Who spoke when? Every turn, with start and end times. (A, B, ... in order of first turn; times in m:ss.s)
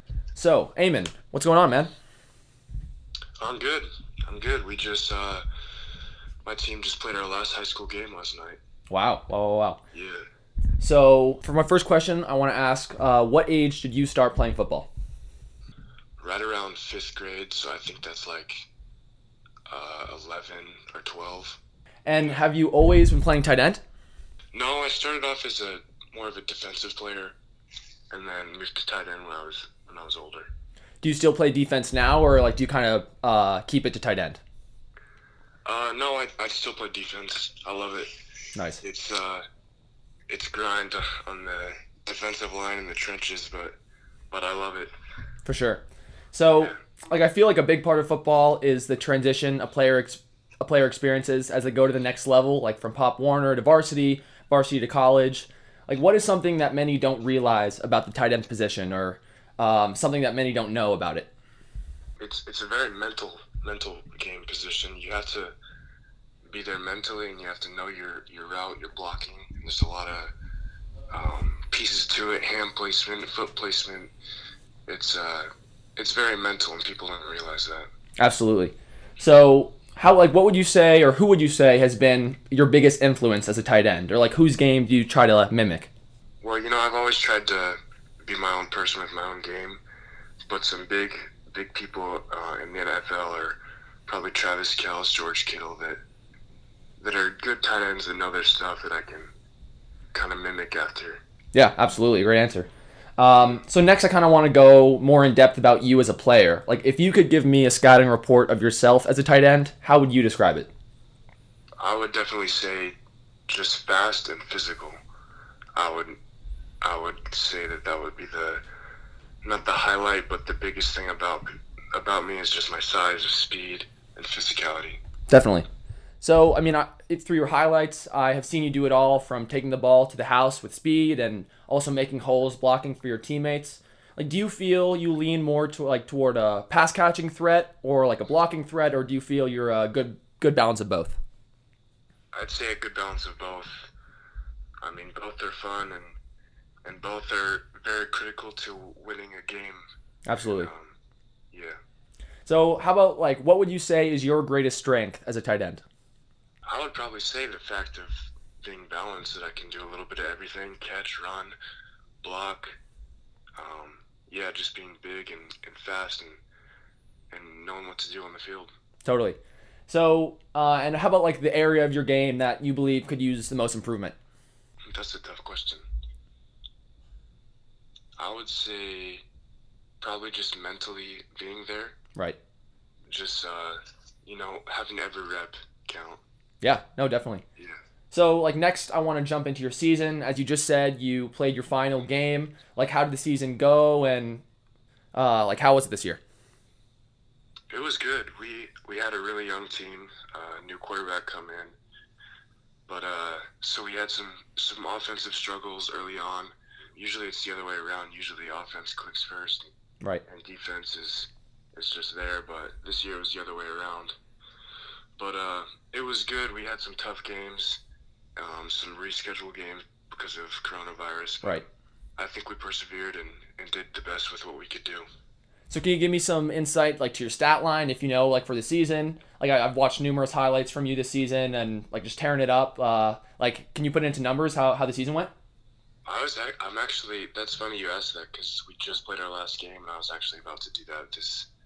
0:00.3-0:01.9 A
0:03.4-0:05.4 B
0:06.4-0:08.6 B
0:08.9-0:09.8 A
0:09.9-0:10.2 B
0:10.8-0:14.9 A
0:16.2-0:18.7 B
0:19.7-0:21.6 B
0:22.0-0:23.8 A
0:24.5-0:27.4 B
0:28.1-0:30.5 B
0:31.0-0:34.4 A
0:35.6-0:38.1 B
0:38.5-0:38.8 A
0:38.8-0:39.4 B
0:40.3-0:43.8 B
0:44.3-0:44.9 B
0:45.4-1:01.3 A
1:02.2-1:05.5 B
1:06.5-1:10.3 B
1:11.1-1:14.1 B
1:14.9-1:17.9 B
1:18.2-1:25.9 A
1:26.4-1:29.8 B
1:30.5-1:36.0 B
1:37.0-1:39.3 B
1:40.1-1:41.2 B
1:41.5-1:50.7 A
1:51.8-1:53.0 B
1:53.5-1:54.9 B
1:55.8-1:56.2 B
1:56.8-1:58.6 B
1:59.4-2:05.0 B
2:05.3-2:05.7 A
2:06.2-2:21.2 A
2:22.3-2:23.9 B
2:24.8-2:26.2 B
2:26.8-2:29.8 B
2:30.2-2:30.7 A
2:30.5-2:31.0 B
2:31.5-2:31.8 B
2:32.4-2:35.8 A
2:36.6-2:41.6 B
2:42.2-2:42.8 B
2:43.6-2:46.4 B
2:47.3-2:48.7 B
2:49.0-2:54.2 A
2:54.8-2:55.8 B
2:58.2-2:59.2 B
3:00.0-3:02.0 B
3:03.1-3:06.2 B
3:06.6-3:07.4 A
3:08.1-3:14.4 A
3:15.1-3:16.2 A
3:17.7-3:21.8 B
3:22.9-3:29.7 B
3:30.3-3:34.1 B
3:35.2-3:37.8 B
3:38.4-3:41.6 B
3:42.2-3:45.1 B
3:45.7-3:55.3 A
3:56.1-4:01.5 B